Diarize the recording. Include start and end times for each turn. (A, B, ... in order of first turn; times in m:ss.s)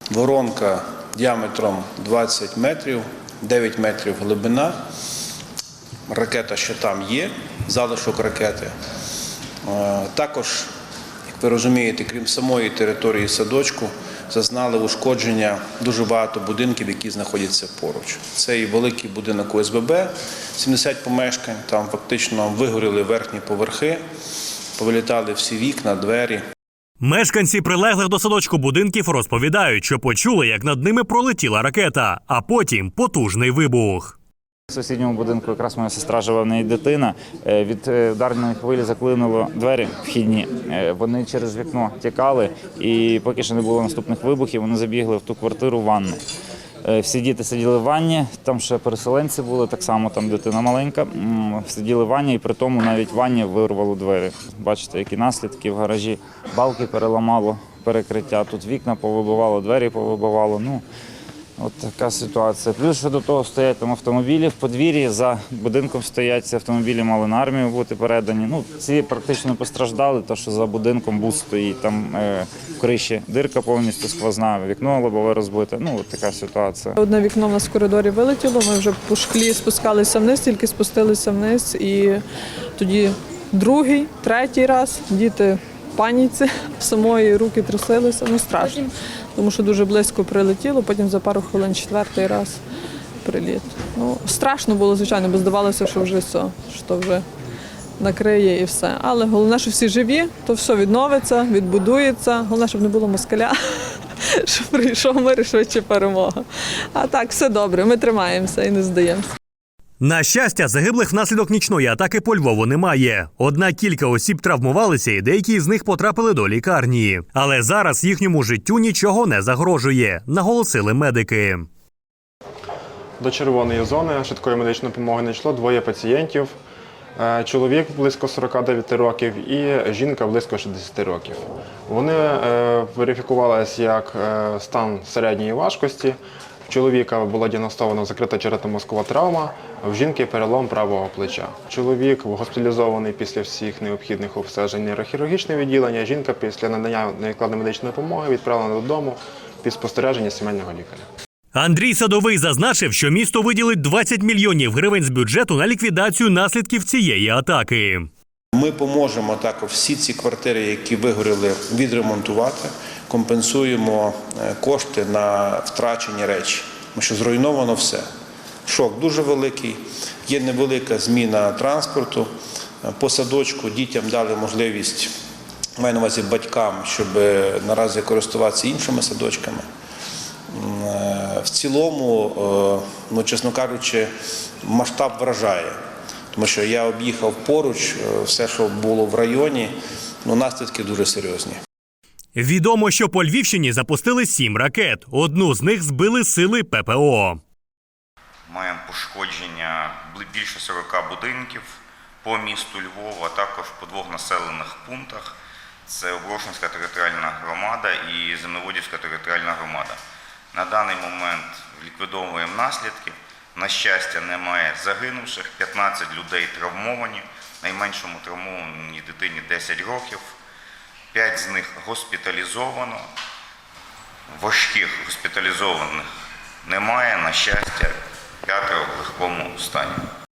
0:00.1-0:04.8 A
0:06.1-0:08.7 A
0:09.6-0:10.7 A
0:11.3-0:24.0 A
0:24.8-0:26.4 A
0:27.0-0:34.2 B
0:34.7-0:46.2 C
0:46.8-1:00.8 C
1:01.6-1:17.0 C
1:17.0-1:22.2 D
1:22.8-1:32.6 D
1:33.2-1:37.2 D
1:38.0-1:43.6 D
1:44.4-1:49.3 D
1:50.0-2:01.7 B
2:03.2-2:06.6 E
2:07.2-2:31.0 E
2:31.6-2:38.1 B
2:38.5-2:48.0 A
2:48.7-2:52.3 A
2:52.8-2:55.1 A
2:55.8-2:59.7 A
3:00.5-3:04.1 A
3:04.6-3:05.8 A
3:06.3-3:09.7 A
3:10.2-3:11.6 A
3:12.4-3:17.4 B
3:18.5-3:21.7 F
3:22.2-3:25.3 F
3:25.9-3:30.0 F
3:30.5-3:40.4 F
3:41.1-3:43.0 F
3:44.3-3:46.1 F
3:46.6-3:50.0 F